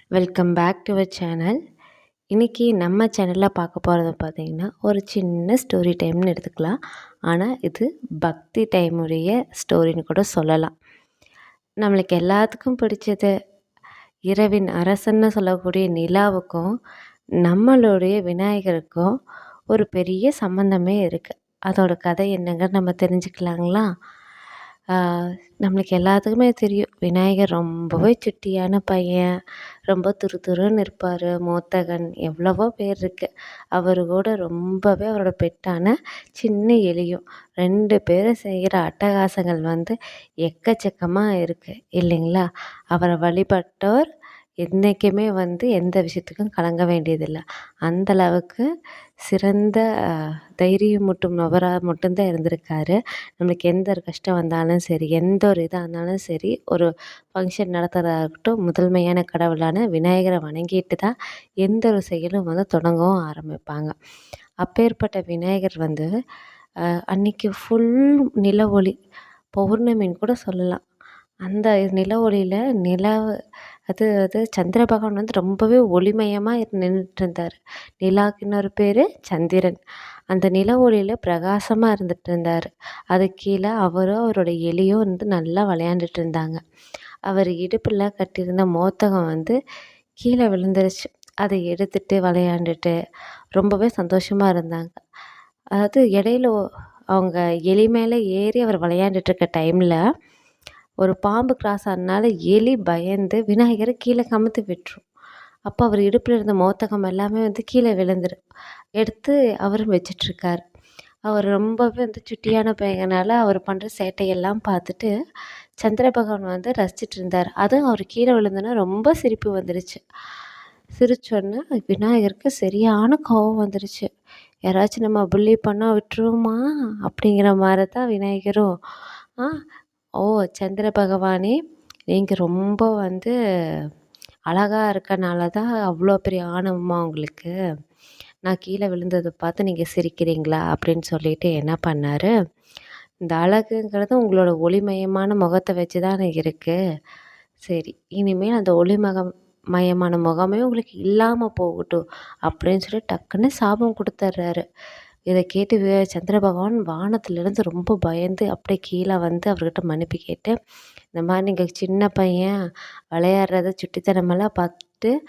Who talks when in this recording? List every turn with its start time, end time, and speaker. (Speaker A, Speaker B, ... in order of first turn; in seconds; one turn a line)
Speaker A: 0.1-1.6
Speaker A: 2.3-6.7
Speaker A: 7.3-10.7
Speaker A: 11.8-13.3
Speaker A: 14.3-16.7
Speaker A: 17.4-19.1
Speaker A: 19.7-23.9
Speaker A: 24.9-29.3
Speaker A: 29.9-44.1
Speaker A: 44.6-48.6
Speaker A: 49.3-49.8
Speaker A: 50.6-61.1
Speaker A: 61.6-63.9
Speaker A: 64.6-66.1
Speaker A: 67.1-68.9
Speaker A: 69.6-70.8
Speaker A: 71.4-73.2
Speaker A: 73.9-79.8
Speaker A: 80.3-86.6
Speaker A: 87.3-89.5
Speaker A: 90.2-92.9
Speaker A: 93.5-95.0
Speaker A: 95.8-96.5
Speaker A: 97.1-100.0
Speaker A: 101.0-105.0
Speaker A: 105.7-108.3
Speaker A: 109.0-110.6
Speaker A: 111.3-115.1
Speaker A: 115.8-120.0
Speaker A: 121.0-124.1
Speaker A: 124.7-128.7
Speaker A: 130.2-131.5
Speaker A: 132.1-133.3
Speaker A: 134.5-137.5
Speaker A: 138.5-142.3
Speaker A: 143.2-146.8
Speaker A: 147.7-154.6
Speaker A: 155.3-160.5
Speaker A: 161.1-162.5
Speaker A: 163.1-165.1